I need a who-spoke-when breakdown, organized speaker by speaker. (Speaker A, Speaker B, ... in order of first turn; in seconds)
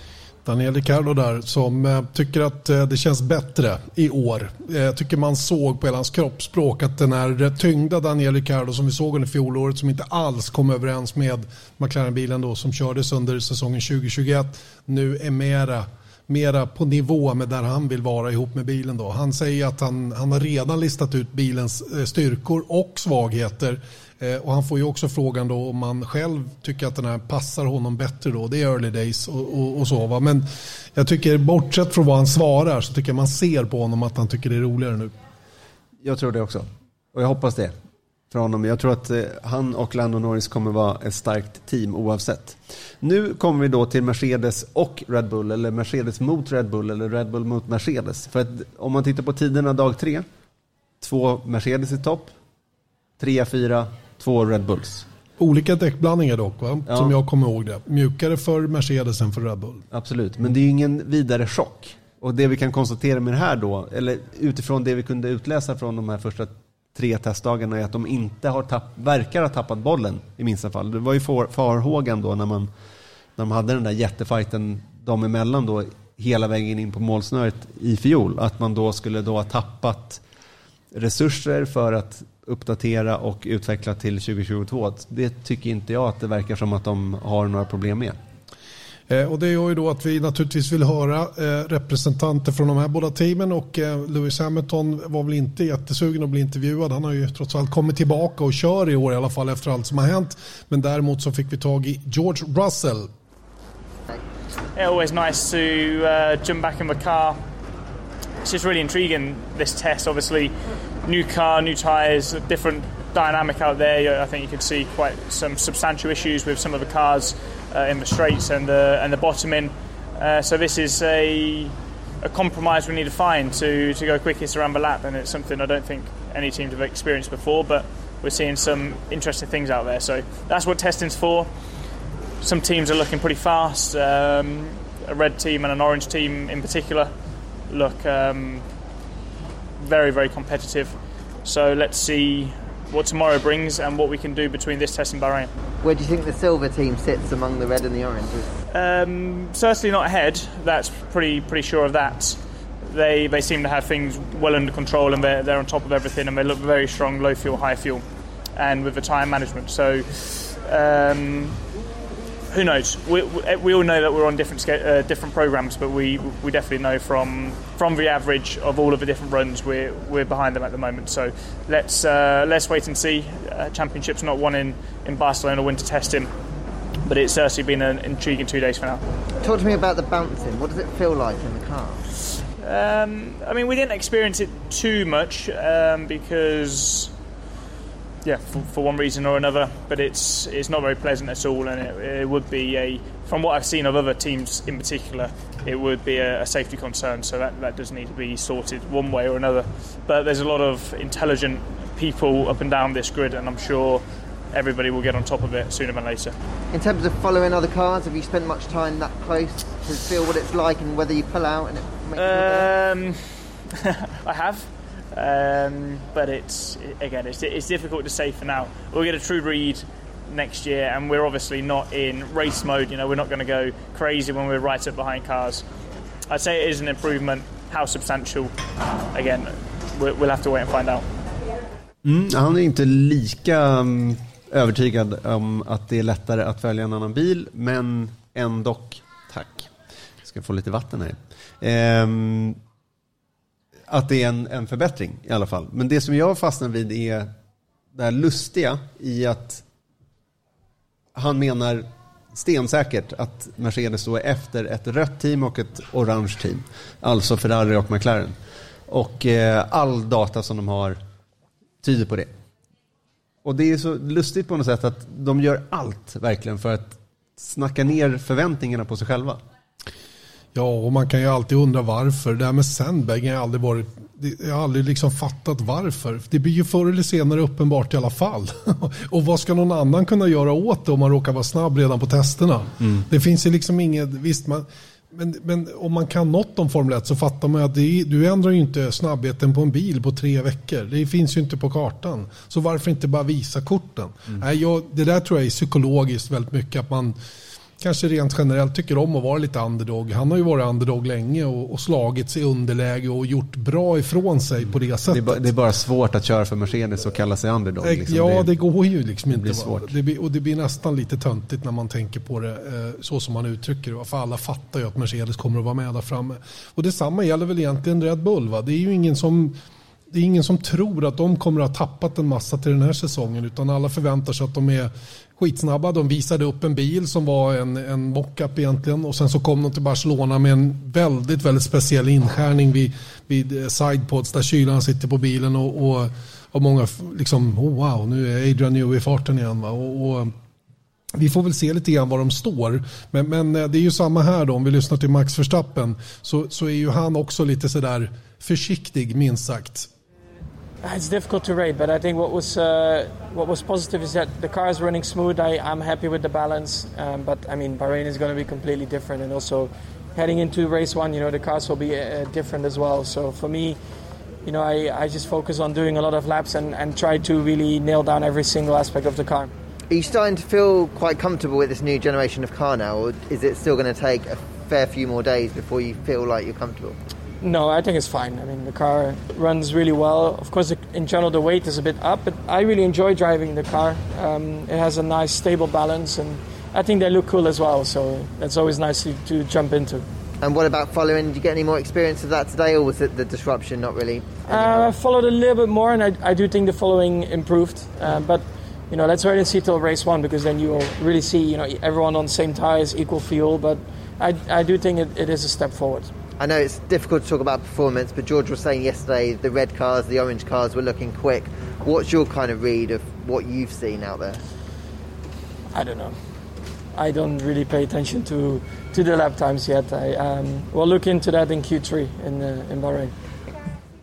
Speaker A: 0.5-35.1, 55.4-59.8, 89.1-103.1, 270.6-297.2, 297.8-305.5, 307.8-319.6, 320.1-340.3, 341.1-349.9
Speaker B: 36.0-37.8, 38.3-50.3, 51.0-52.3, 53.2-55.1, 56.9-57.1, 59.9-72.7, 73.4-80.2, 80.9-88.2, 232.0-239.7, 240.2-242.6, 243.9-247.3, 247.9-249.6, 251.2-258.4, 258.9-261.0, 261.8-262.3, 263.4-269.4, 305.1-308.5, 309.3-309.9
Speaker C: 104.8-107.4, 108.4-131.5, 132.4-137.1, 137.7-138.7, 139.8-145.5, 148.7-158.0, 158.6-161.6, 162.5-176.3, 177.1-179.0, 182.6-187.1, 188.2-206.3, 212.2-225.6, 226.3-228.5, 229.1-231.1
Speaker D: 145.8-148.5, 179.4-182.1, 206.7-212.7, 369.9-377.0, 390.4-394.9, 406.4-414.4
Speaker E: 350.8-363.8, 364.4-369.5, 377.4-390.1, 394.5-406.1, 415.7-416.2, 416.9-423.1